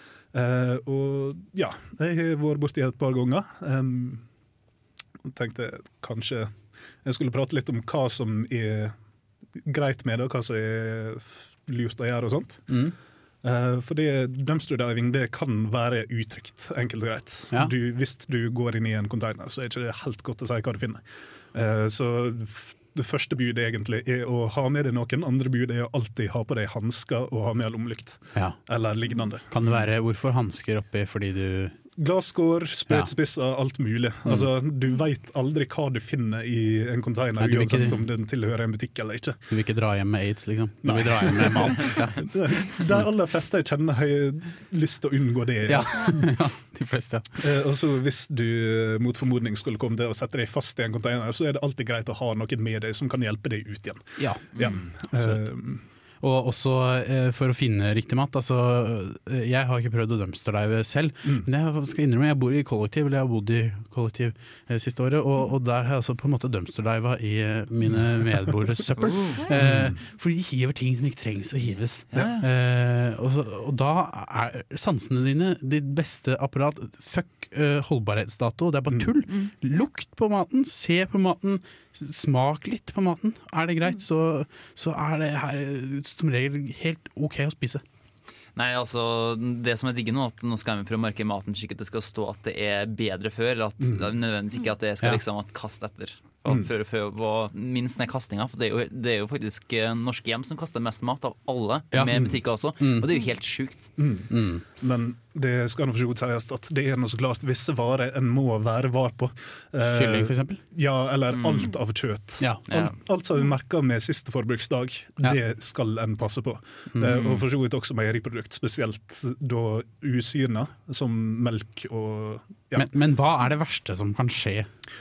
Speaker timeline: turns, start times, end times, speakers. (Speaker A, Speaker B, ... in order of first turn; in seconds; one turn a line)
Speaker A: 0.3-4.2
Speaker A: 5.3-8.9
Speaker A: 9.6-12.8
Speaker B: 12.7-12.9
Speaker A: 13.4-29.5
Speaker B: 29.5-31.8
Speaker A: 32.0-39.4
Speaker B: 37.4-38.0
Speaker B: 39.5-42.3
Speaker A: 40.8-46.4
Speaker B: 45.7-47.4
Speaker A: 47.4-55.8
Speaker B: 54.2-55.5
Speaker B: 56.2-87.8
Speaker C: 69.0-69.4
Speaker A: 69.5-70.0
Speaker A: 72.1-72.5
Speaker C: 88.5-103.9
Speaker A: 93.8-94.1
Speaker B: 101.9-103.1
Speaker A: 104.0-122.9
Speaker B: 104.3-104.6
Speaker B: 109.8-110.6
Speaker C: 111.3-111.7
Speaker C: 112.7-113.0
Speaker B: 117.0-117.3
Speaker C: 117.2-117.4
Speaker B: 122.8-124.7